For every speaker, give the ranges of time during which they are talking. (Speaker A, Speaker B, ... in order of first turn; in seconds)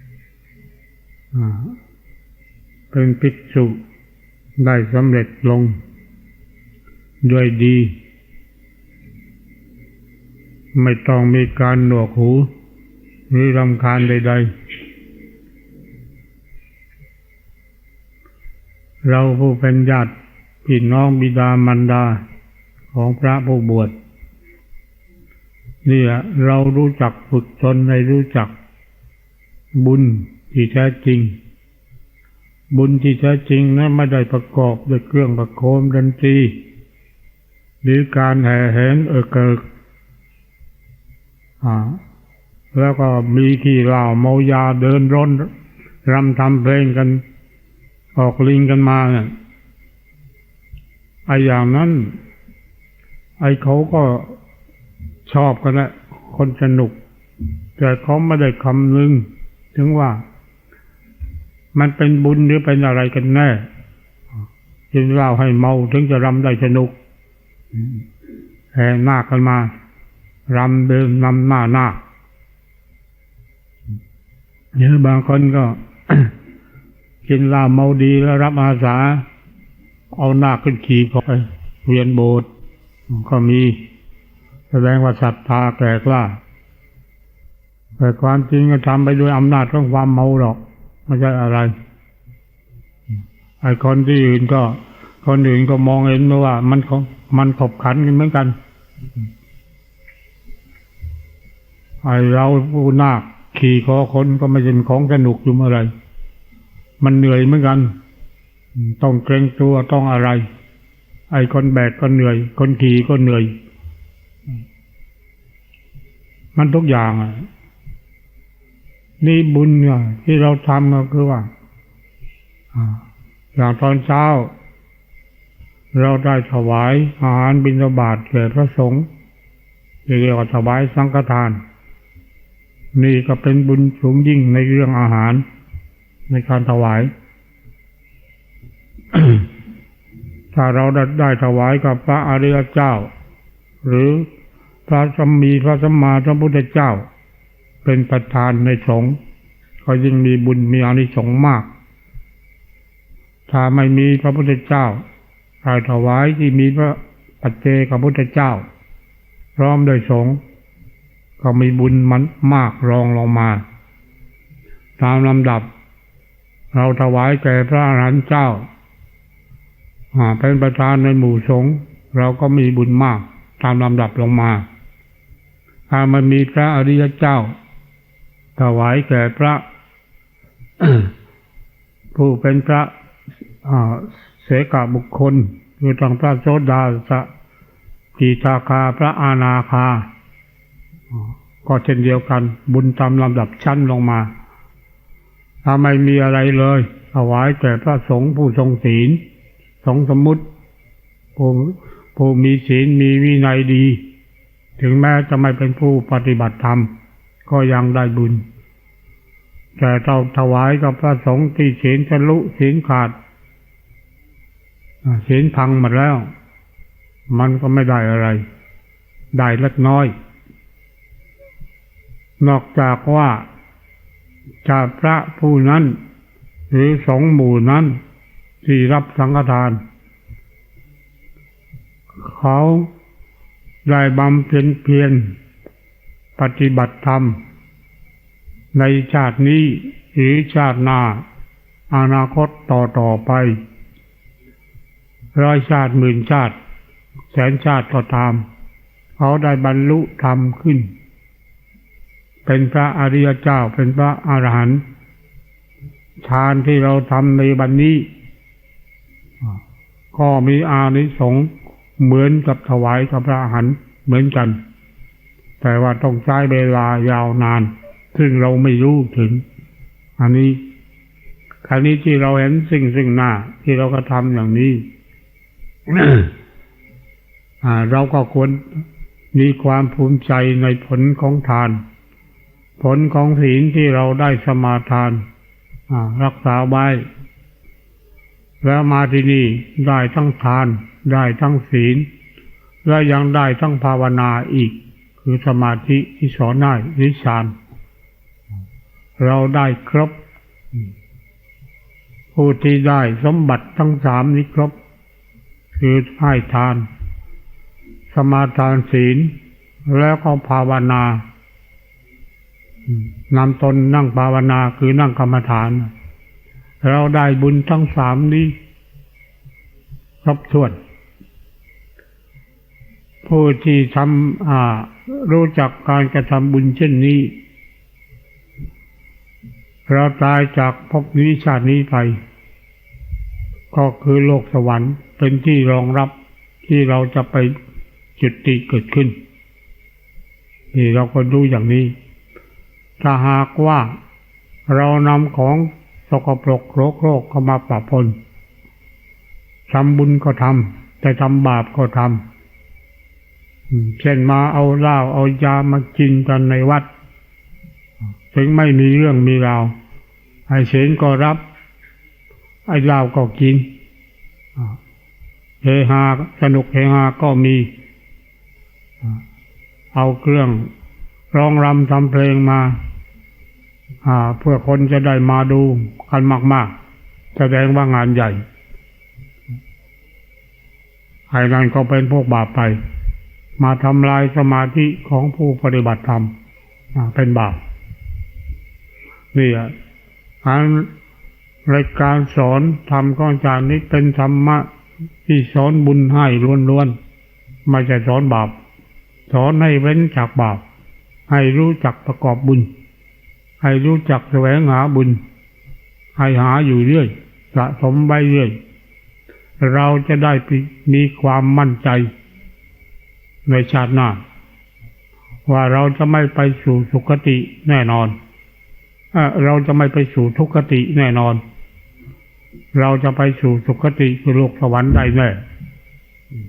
Speaker A: 1.3-1.8, 2.9-3.8, 4.6-5.8, 7.2-8.0, 10.8-12.5, 13.3-14.5, 19.0-20.1, 20.6-22.2, 22.9-23.9, 25.9-28.5, 29.8-31.4, 32.7-36.6, 37.8-39.6, 41.6-42.0, 42.7-45.5, 46.1-47.2, 48.1-49.3, 51.3-52.1, 53.4-54.3, 55.3-57.0, 57.8-60.2, 61.7-63.7, 64.9-66.9, 68.7-69.7, 70.5-72.0, 74.8-76.3, 77.2-79.2, 80.1-82.5, 83.1-83.8, 84.7-86.4, 88.0-91.7, 93.6-98.6, 102.0-105.9, 107.0-107.9, 108.8-110.4, 111.3-113.5, 116.6-117.5, 119.2-121.5, 122.7-123.0, 123.5-124.5, 125.9-129.1, 130.1-131.6, 132.9-135.4, 136.3-137.1, 139.1-139.5, 140.5-143.1, 143.8-144.3, 144.9-147.1, 147.8-149.2, 149.8-151.7, 153.5-155.0, 155.6-158.6, 159.6-160.4, 161.4-163.6, 165.0-165.7, 166.7-168.7, 170.1-174.7, 175.9-177.5, 178.6-179.6, 180.8-181.1, 182.2-182.9, 183.6-187.3, 188.2-190.1, 191.1-194.3, 195.6-199.2, 199.8-200.4, 201.4-204.0, 204.8-206.9, 207.5-208.4, 209.8-213.2, 215.1-216.3, 217.3-218.4, 219.3-220.1, 222.4-223.4, 224.6-226.0, 226.7-228.0, 228.6-229.8, 232.2-232.9, 233.9-235.3, 236.4-237.4, 238.7-241.2, 241.9-243.6, 245.3-246.6, 247.3-248.4, 249.2-250.9, 252.5-254.8, 256.2-258.1, 260.1-264.6, 265.6-269.4, 270.2-270.6, 271.6-274.9, 275.9-276.3, 277.6-281.8, 282.8-285.2, 285.9-287.0, 288.6-292.1, 292.8-297.5, 299.2-300.1, 302.3-304.7, 305.8-306.9, 308.1-309.4, 309.9-311.2, 312.9-315.9, 316.8-318.6, 320.2-320.8, 323.2-327.4, 329.9-332.2, 333.7-336.1, 336.7-337.5, 338.2-339.2, 340.7-341.9, 343.0-343.9, 344.7-348.2, 349.7-352.2, 353.7-356.9, 358.3-359.7, 360.5-361.4, 362.7-363.7, 365.6-367.7, 369.9-370.7, 371.3-372.8, 374.0-376.7, 377.4-378.4, 381.3-382.8, 383.6-386.3, 386.9-387.6, 389.3-389.7, 390.4-390.9, 391.7-394.7, 395.2-396.9, 397.7-398.6, 399.3-400.6, 401.3-402.7, 403.6-405.2, 406.2-408.6, 409.6-412.1, 413.5-414.2, 415.5-418.2, 419.1-421.4, 422.7-425.4